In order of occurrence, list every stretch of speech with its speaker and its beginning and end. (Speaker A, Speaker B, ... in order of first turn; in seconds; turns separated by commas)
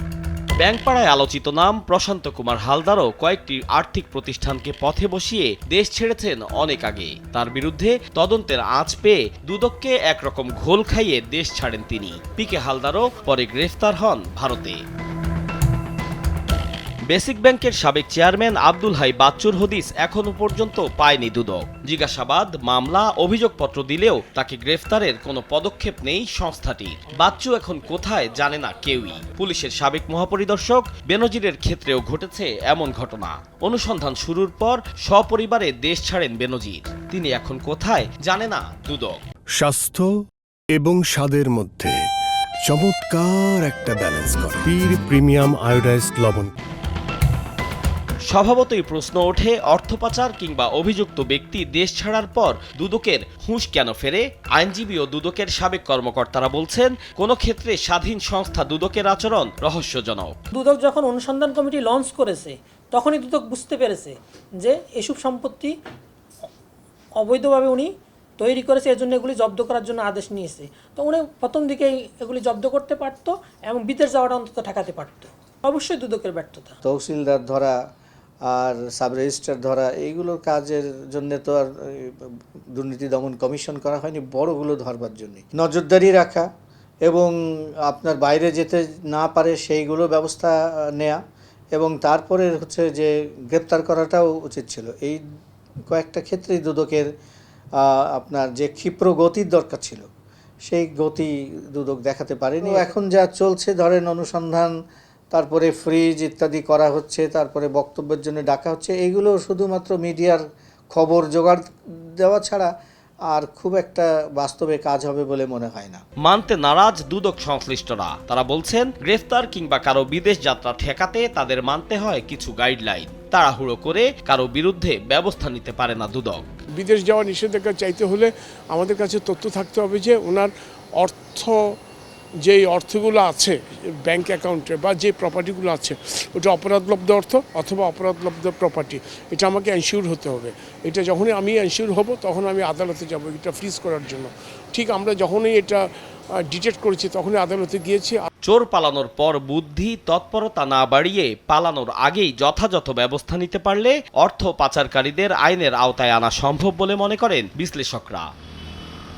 Speaker A: 0.6-14.8, Speaker A: 17.1-39.2, Speaker B: 39.5-40.1, Speaker B: 40.7-42.0, Speaker B: 42.6-46.5, Speaker A: 48.2-60.3, Speaker C: 60.6-64.1, Speaker C: 64.7-65.6, Speaker C: 67.3-67.8, Speaker C: 68.4-76.7, Speaker D: 76.8-77.8, Speaker D: 78.5-86.5, Speaker D: 87.0-87.3, Speaker D: 87.8-91.2, Speaker D: 91.7-95.2, Speaker D: 95.9-97.1, Speaker D: 97.8-100.0, Speaker D: 100.7-104.7, Speaker D: 105.3-110.4, Speaker D: 110.9-111.6, Speaker D: 112.2-112.7, Speaker D: 113.3-116.0, Speaker A: 116.2-126.4, Speaker E: 126.8-131.6, Speaker E: 132.4-145.8, Speaker E: 146.4-148.2, Speaker A: 148.4-158.3